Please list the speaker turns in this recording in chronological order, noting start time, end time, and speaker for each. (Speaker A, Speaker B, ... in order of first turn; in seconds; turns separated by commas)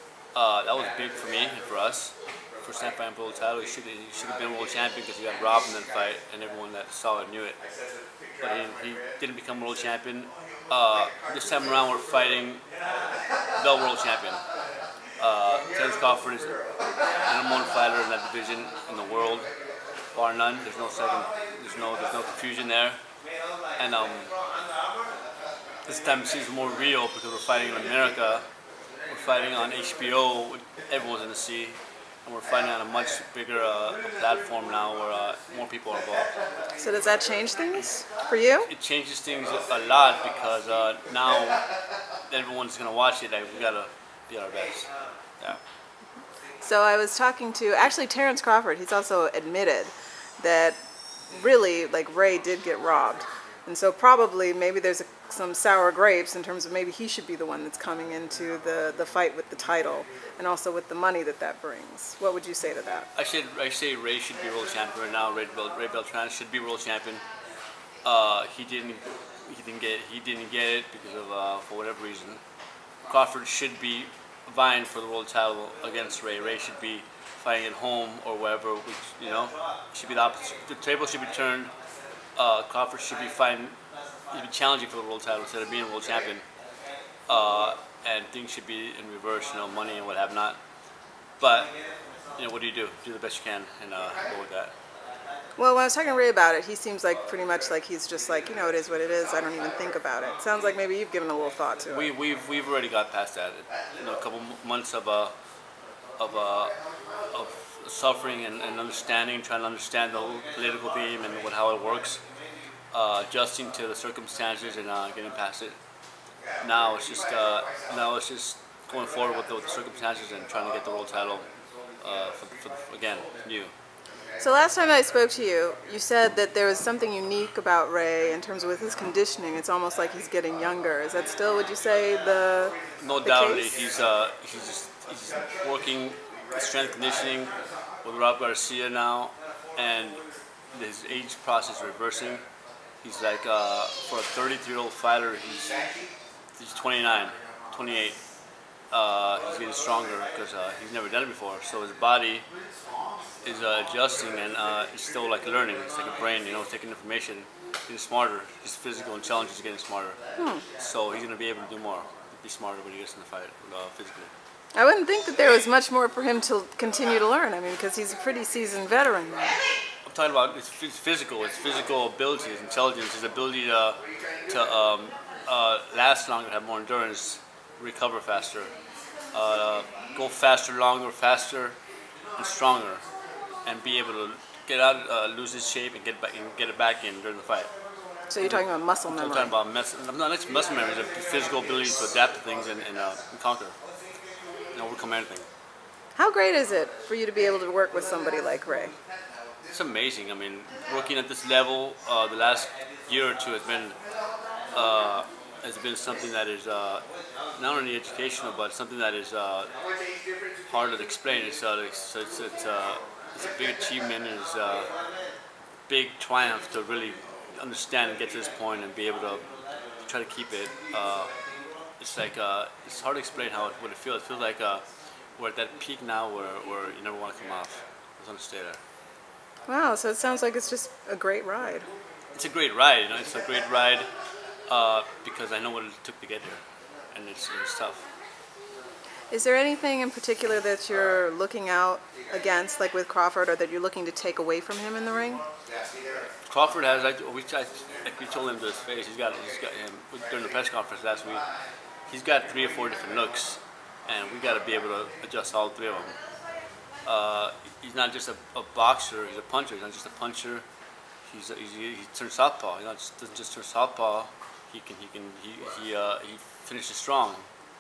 Speaker A: 0.3-7.6, Speaker A: 8.4-12.6, Speaker A: 13.6-14.4, Speaker A: 15.2-16.6, Speaker A: 17.3-19.5, Speaker A: 20.1-23.0, Speaker A: 23.8-24.3, Speaker A: 25.9-28.4, Speaker A: 29.1-36.3, Speaker B: 36.8-38.7, Speaker A: 38.6-41.6, Speaker A: 42.3-45.6, Speaker B: 46.6-50.8, Speaker B: 51.3-63.1, Speaker A: 63.1-67.2, Speaker A: 68.0-72.4, Speaker A: 73.1-81.7, Speaker A: 82.4-83.8, Speaker A: 84.3-86.5, Speaker A: 87.3-90.6, Speaker A: 91.4-91.7, Speaker A: 92.4-94.7, Speaker B: 95.6-102.1, Speaker A: 101.9-105.3, Speaker A: 106.2-106.8, Speaker A: 107.3-112.2, Speaker A: 112.9-115.8, Speaker A: 116.6-121.5, Speaker A: 122.0-123.7, Speaker B: 124.4-133.7, Speaker A: 133.0-137.5, Speaker A: 138.1-142.4, Speaker A: 143.0-145.8, Speaker A: 146.6-148.2, Speaker A: 148.9-152.5, Speaker A: 153.4-160.2, Speaker B: 160.4-160.7, Speaker A: 160.8-164.3, Speaker B: 164.8-169.6, Speaker A: 170.1-178.7, Speaker A: 179.3-181.8, Speaker A: 182.4-183.0, Speaker A: 183.7-187.7, Speaker B: 188.3-189.5, Speaker A: 188.4-193.8, Speaker A: 194.7-195.5, Speaker B: 196.2-198.9, Speaker A: 199.7-204.0, Speaker A: 204.7-207.1, Speaker A: 207.6-209.7, Speaker A: 210.7-214.9, Speaker A: 215.9-219.4, Speaker A: 220.1-221.3, Speaker A: 222.0-224.8, Speaker A: 225.4-228.8, Speaker B: 229.7-231.9, Speaker A: 232.3-234.1, Speaker A: 234.7-238.1, Speaker B: 239.3-245.4, Speaker A: 246.5-251.4, Speaker A: 252.1-256.2, Speaker A: 257.1-260.6, Speaker A: 261.2-267.4